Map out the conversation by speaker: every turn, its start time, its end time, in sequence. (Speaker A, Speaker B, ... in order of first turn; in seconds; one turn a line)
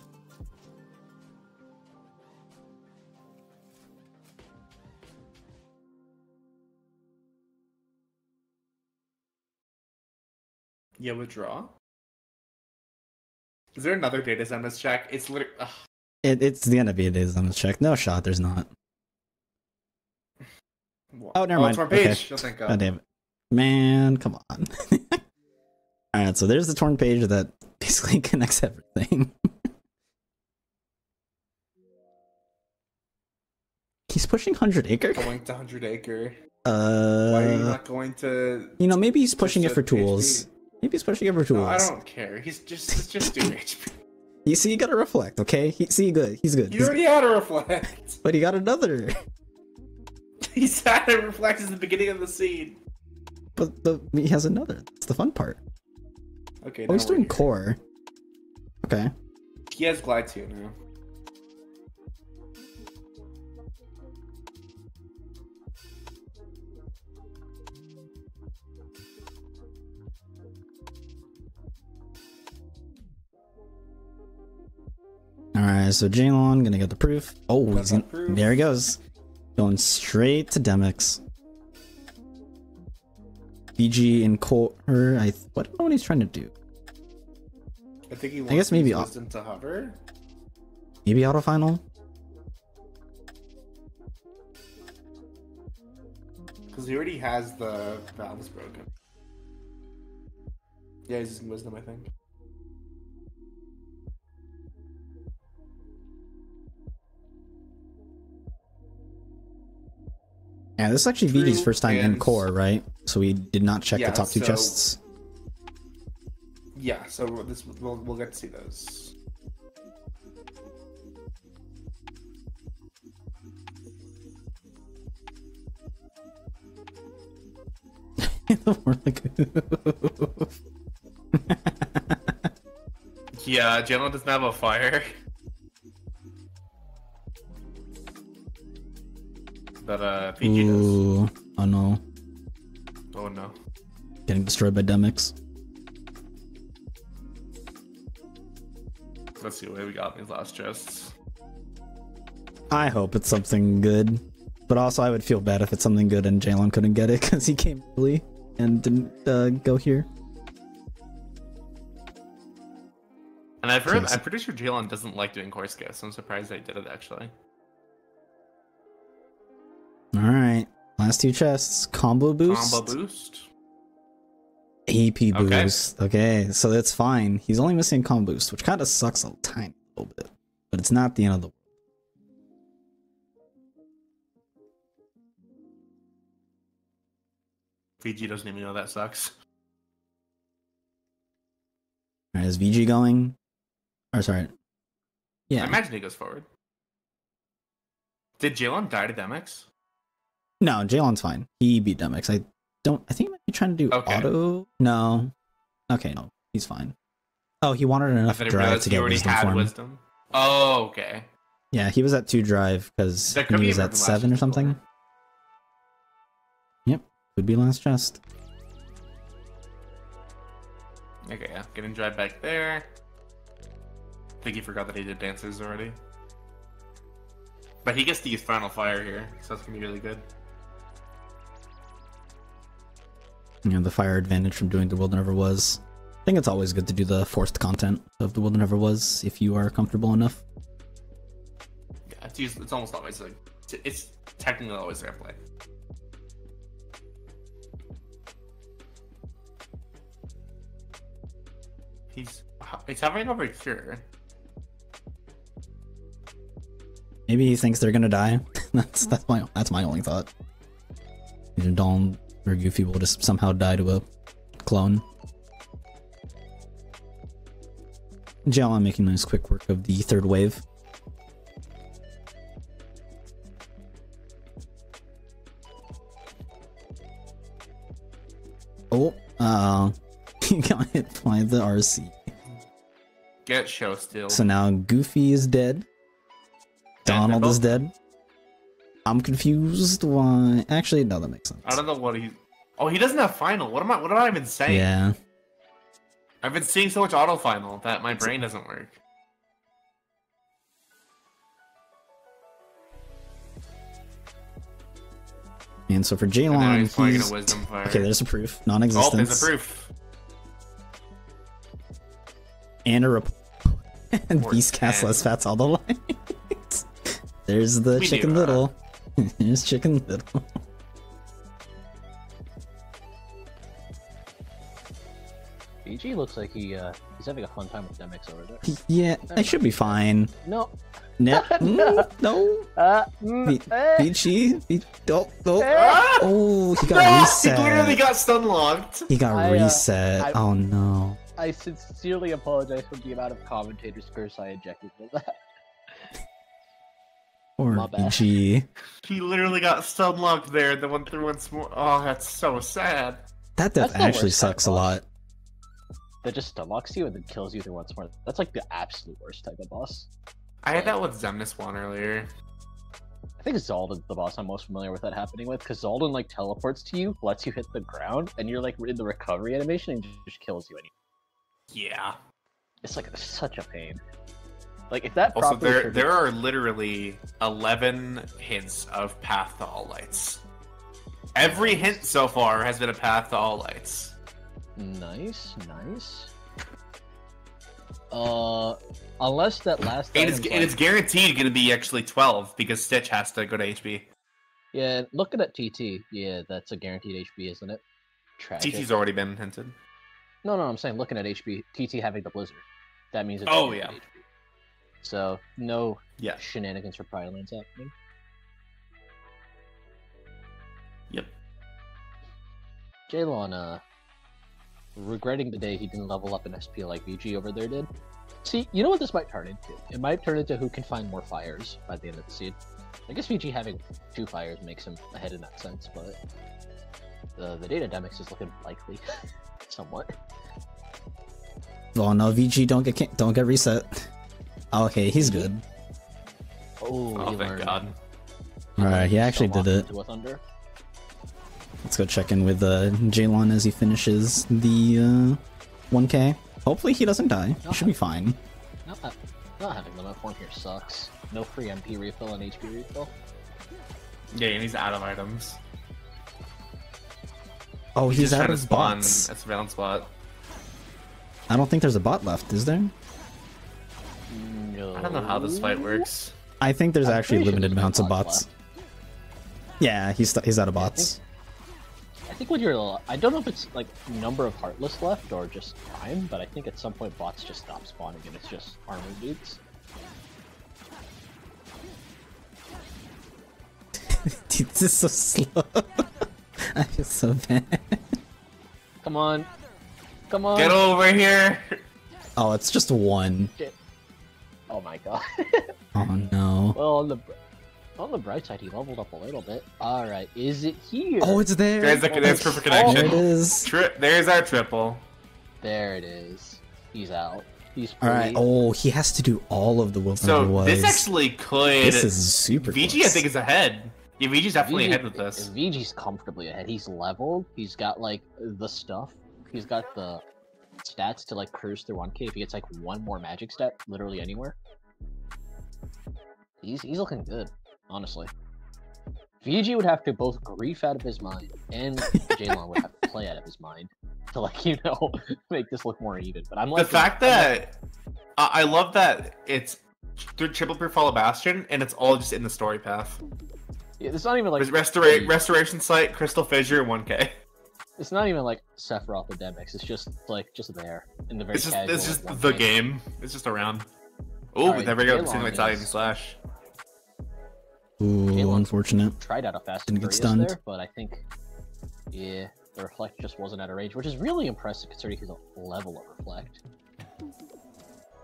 Speaker A: 11.0-11.7
Speaker A: 13.7-15.8
Speaker B: 16.2-18.7
Speaker A: 21.1-22.9
Speaker B: 21.3-25.2
Speaker B: 26.1-29.3
Speaker B: 34.1-35.3
Speaker A: 35.1-36.4
Speaker B: 36.6-37.8
Speaker A: 37.2-38.8
Speaker B: 38.8-41.9
Speaker A: 39.4-40.5
Speaker A: 41.5-43.9
Speaker B: 42.9-43.5
Speaker B: 44.4-47.0
Speaker A: 46.7-48.2
Speaker B: 48.2-49.1
Speaker A: 50.4-52.8
Speaker B: 53.5-55.6
Speaker A: 56.6-57.5
Speaker B: 56.9-57.8
Speaker B: 58.8-59.1
Speaker A: 59.7-60.7
Speaker B: 75.5-79.0
Speaker A: 77.7-78.6
Speaker B: 79.5-81.2
Speaker B: 83.8-86.5
Speaker A: 88.1-90.0
Speaker B: 88.5-89.1
Speaker B: 91.0-91.8
Speaker A: 96.7-98.9
Speaker A: 101.1-102.1
Speaker B: 110.8-115.0
Speaker A: 111.3-112.5
Speaker A: 113.9-114.8
Speaker A: 116.7-119.1
Speaker B: 128.2-130.5
Speaker B: 131.3-132.5
Speaker A: 133.3-135.1
Speaker A: 139.8-141.0
Speaker B: 140.4-142.0
Speaker A: 143.1-143.6
Speaker B: 144.3-145.3
Speaker A: 149.4-151.1
Speaker B: 152.7-160.1
Speaker A: 163.6-167.3
Speaker B: 163.9-164.2
Speaker B: 170.1-172.9
Speaker A: 172.5-173.5
Speaker B: 174.9-181.5
Speaker A: 175.3-175.8
Speaker A: 188.0-189.3
Speaker B: 192.3-193.3
Speaker B: 194.1-194.5
Speaker B: 195.5-195.8
Speaker A: 195.6-196.5
Speaker A: 198.4-199.7
Speaker B: 200.6-205.3
Speaker A: 203.9-204.3
Speaker B: 205.9-206.9
Speaker B: 207.6-209.7
Speaker A: 208.3-211.3
Speaker B: 211.7-214.8
Speaker A: 213.3-214.8
Speaker B: 216.8-218.2
Speaker A: 221.2-222.8
Speaker A: 224.4-226.0
Speaker A: 227.8-230.2
Speaker B: 233.6-240.4
Speaker A: 242.1-245.4
Speaker A: 252.1-254.0
Speaker B: 257.3-260.3
Speaker B: 261.6-264.0
Speaker B: 264.6-265.0
Speaker B: 268.4-270.6
Speaker B: 278.9-282.2
Speaker A: 283.4-284.4
Speaker B: 284.3-285.8
Speaker A: 287.0-287.7
Speaker B: 287.0-287.9
Speaker B: 289.1-291.8
Speaker A: 291.6-294.9
Speaker B: 294.7-295.1
Speaker A: 296.4-299.0
Speaker B: 305.9-309.5
Speaker A: 306.5-308.1
Speaker A: 308.9-309.9
Speaker B: 312.8-316.9
Speaker A: 314.4-315.3
Speaker B: 317.4-320.5
Speaker A: 317.9-318.7
Speaker C: 325.8-328.8
Speaker B: 328.6-330.3
Speaker C: 329.3-330.7
Speaker B: 331.2-332.7
Speaker C: 331.3-332.1
Speaker C: 332.8-334.1
Speaker B: 333.4-338.0
Speaker C: 335.6-336.1
Speaker A: 335.7-339.1
Speaker B: 339.1-341.2
Speaker C: 339.3-340.4
Speaker C: 341.4-345.4
Speaker B: 347.6-348.7
Speaker C: 347.7-348.2
Speaker A: 349.0-353.2
Speaker B: 353.6-355.0
Speaker C: 353.8-355.0
Speaker C: 356.2-360.1
Speaker A: 360.6-362.3
Speaker C: 360.7-361.0
Speaker C: 363.4-370.9
Speaker A: 371.7-372.2
Speaker C: 372.8-374.0
Speaker C: 374.9-376.1
Speaker A: 375.3-380.4
Speaker A: 381.3-384.1
Speaker C: 381.4-382.0
Speaker C: 384.8-386.3
Speaker C: 388.1-390.8
Speaker A: 390.1-394.1
Speaker C: 394.7-397.8
Speaker C: 398.4-398.9
Speaker A: 398.6-399.8
Speaker C: 400.4-404.2
Speaker A: 403.4-404.0
Speaker C: 405.0-407.9
Speaker C: 413.1-413.8
Speaker C: 414.9-417.9
Speaker C: 418.4-422.6
Speaker C: 423.1-426.2
Speaker C: 427.4-429.0
Speaker C: 429.6-430.1
Speaker B: 431.9-434.1
Speaker B: 434.7-435.6
Speaker C: 435.2-435.5
Speaker C: 436.8-437.9
Speaker A: 437.1-437.9
Speaker B: 438.8-439.9
Speaker C: 438.8-440.4
Speaker B: 441.8-445.4
Speaker B: 445.9-448.4
Speaker C: 447.6-447.9
Speaker C: 448.8-453.1
Speaker A: 454.3-455.6
Speaker B: 457.9-459.3
Speaker A: 458.1-460.1
Speaker B: 461.5-462.9
Speaker C: 464.3-466.1
Speaker A: 464.9-466.4
Speaker B: 466.6-468.5
Speaker C: 467.0-468.5
Speaker B: 469.8-471.2
Speaker C: 470.8-471.1
Speaker C: 472.3-479.6
Speaker B: 484.1-488.2
Speaker C: 489.0-489.5
Speaker C: 490.3-490.8
Speaker A: 490.5-491.8
Speaker B: 492.4-493.5
Speaker C: 494.7-495.7
Speaker B: 495.9-496.8
Speaker C: 496.7-497.3
Speaker C: 498.0-501.5
Speaker B: 501.2-503.7
Speaker A: 501.8-505.0
Speaker C: 502.1-503.2
Speaker C: 505.6-508.4
Speaker B: 508.0-511.1
Speaker A: 510.2-515.5
Speaker B: 511.8-513.2
Speaker C: 514.6-520.2
Speaker C: 520.8-524.6
Speaker C: 526.6-528.3
Speaker C: 529.4-537.5
Speaker B: 532.1-532.5
Speaker A: 536.7-537.7
Speaker A: 538.4-543.2
Speaker C: 544.0-545.4
Speaker A: 544.6-547.4
Speaker C: 548.0-552.7
Speaker A: 551.5-553.9
Speaker A: 554.5-556.4
Speaker C: 554.6-555.9
Speaker B: 558.0-559.1
Speaker C: 558.3-561.2
Speaker B: 559.9-560.5
Speaker C: 562.1-566.6